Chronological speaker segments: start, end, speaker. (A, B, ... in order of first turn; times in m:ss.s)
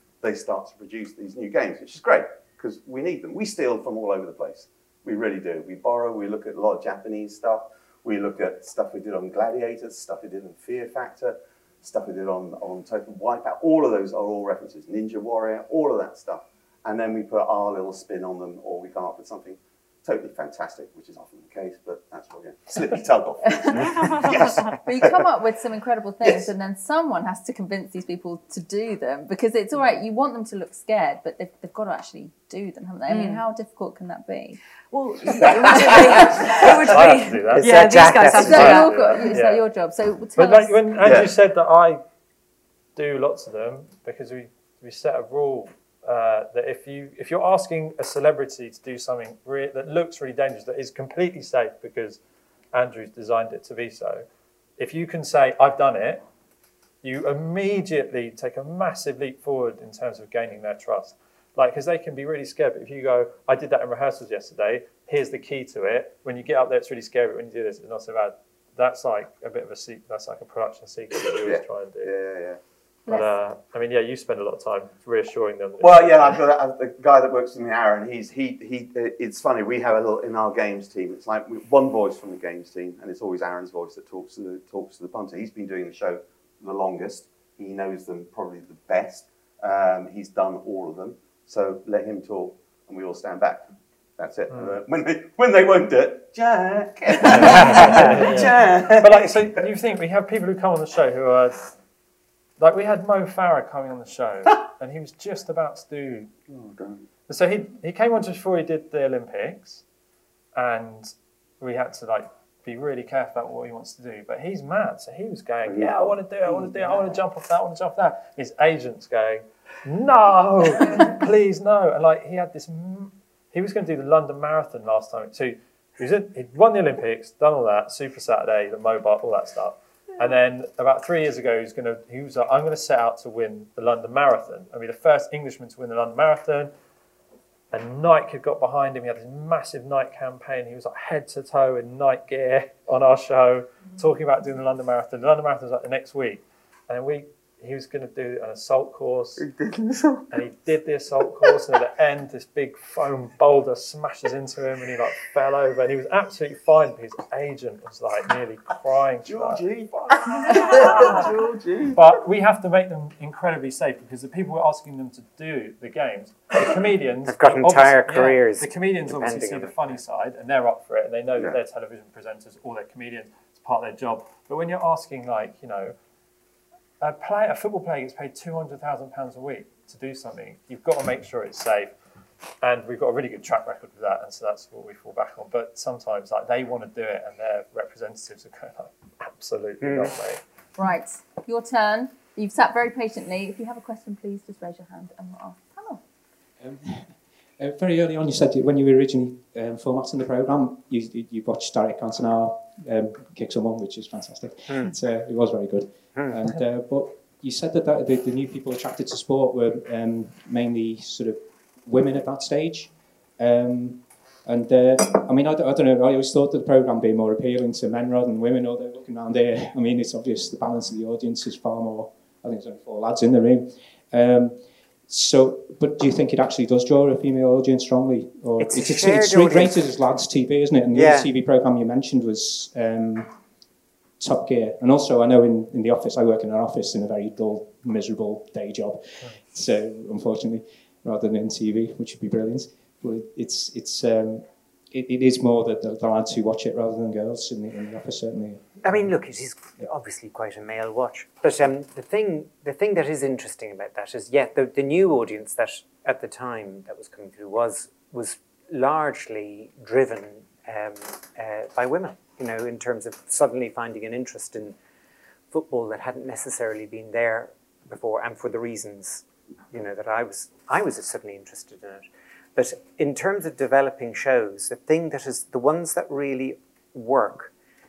0:00.2-0:25.3 A
0:23.5-0:34.6 B
0:33.1-0:33.4 C
0:34.9-0:39.4 C
0:35.6-0:36.4 B
0:36.9-0:37.8 D
0:37.6-0:38.8 E
0:38.4-0:39.6 D
0:38.4-0:40.8 B
0:40.4-0:42.0 D
0:41.0-0:41.3 A
0:43.0-0:52.2 D
0:52.7-0:54.3 D
0:54.8-0:56.2 D
0:57.0-1:12.1 D
1:11.4-1:12.6 A
1:13.1-1:13.3 B
1:13.1-1:16.4 D
1:15.8-1:39.6 A
1:34.5-1:34.8 D
1:37.2-1:41.8 D
1:42.6-1:46.3 D
1:46.5-1:47.1 A
1:47.3-1:49.8 D
1:50.6-2:16.7 D
1:55.6-1:57.1 A
2:17.7-2:29.5 D
2:29.4-2:30.3 A
2:30.3-2:39.6 D
2:39.2-2:42.0 A
2:40.5-2:41.3 D
2:41.9-2:56.0 D
2:47.3-2:49.9 E
2:57.0-3:02.0 D
3:02.6-3:10.4 D
3:09.8-3:10.1 E
3:10.8-3:16.0 B
3:16.6-3:53.4 F
3:24.7-3:24.9 E
3:48.6-3:49.9 E
3:50.9-3:51.3 E
3:54.2-4:09.2 F
4:08.8-4:24.8 E
4:25.5-4:37.5 E